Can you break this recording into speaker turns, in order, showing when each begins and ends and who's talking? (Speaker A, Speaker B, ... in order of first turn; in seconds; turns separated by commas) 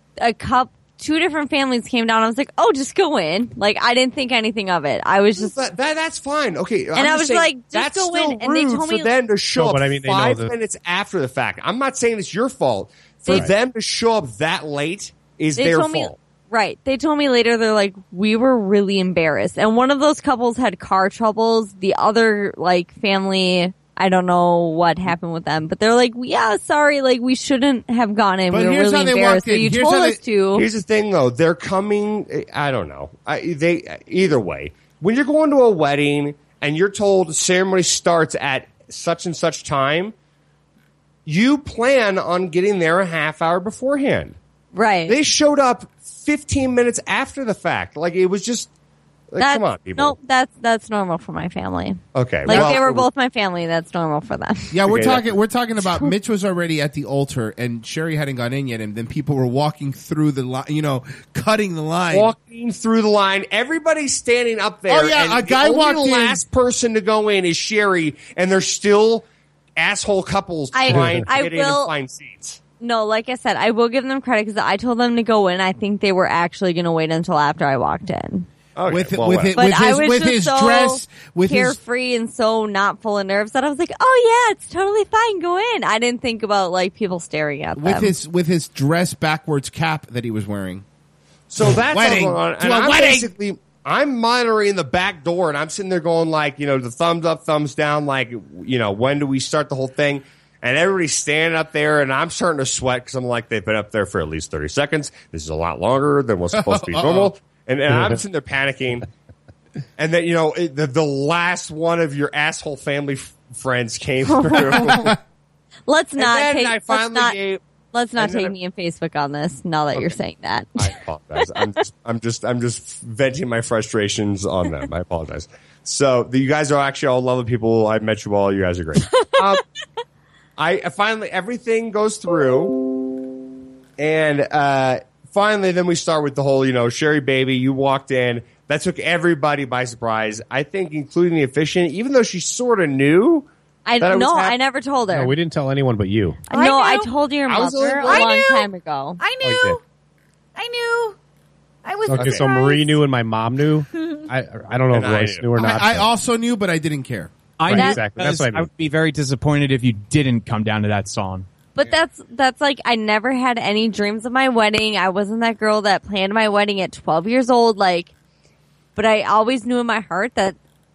Speaker A: 0.2-5.5, Speaker B: 5.4-16.2, Speaker A: 7.0-9.1, Speaker C: 9.6-10.5, Speaker A: 13.3-13.5, Speaker A: 15.6-30.7, Speaker D: 28.5-30.2, Speaker B: 30.6-40.1, Speaker B: 41.3-44.4, Speaker A: 44.7-45.2, Speaker B: 45.1-48.7, Speaker B: 49.3-50.1, Speaker A: 49.4-54.8, Speaker B: 52.1-53.1, Speaker D: 52.5-52.8, Speaker D: 54.7-62.3, Speaker B: 54.9-55.3, Speaker B: 62.1-69.3, Speaker D: 64.9-66.4, Speaker B: 69.8-72.6, Speaker A: 70.7-71.9, Speaker A: 72.8-78.5, Speaker B: 78.8-79.5, Speaker D: 78.9-81.8, Speaker A: 79.6-88.1, Speaker D: 87.8-90.8, Speaker B: 91.5-109.1, Speaker D: 91.6-93.3, Speaker D: 106.5-107.3, Speaker B: 110.0-115.2, Speaker A: 114.3-115.1, Speaker A: 115.9-117.3, Speaker B: 116.2-117.6, Speaker A: 117.9-120.9, Speaker B: 118.2-118.5, Speaker B: 120.8-129.6, Speaker B: 130.6-132.8, Speaker B: 134.0-143.5, Speaker A: 143.9-145.3, Speaker B: 144.0-144.6, Speaker C: 145.1-146.4, Speaker A: 146.5-149.2, Speaker E: 146.5-147.1, Speaker B: 147.5-148.3, Speaker E: 148.0-149.8, Speaker C: 149.4-149.8, Speaker E: 150.6-151.2, Speaker E: 151.8-153.0, Speaker C: 152.1-156.1, Speaker B: 152.1-152.4, Speaker E: 153.9-154.3, Speaker B: 154.9-155.4, Speaker D: 155.6-157.3, Speaker F: 157.6-161.5, Speaker C: 157.7-158.7, Speaker A: 157.7-158.0, Speaker A: 161.8-168.1, Speaker A: 169.0-170.6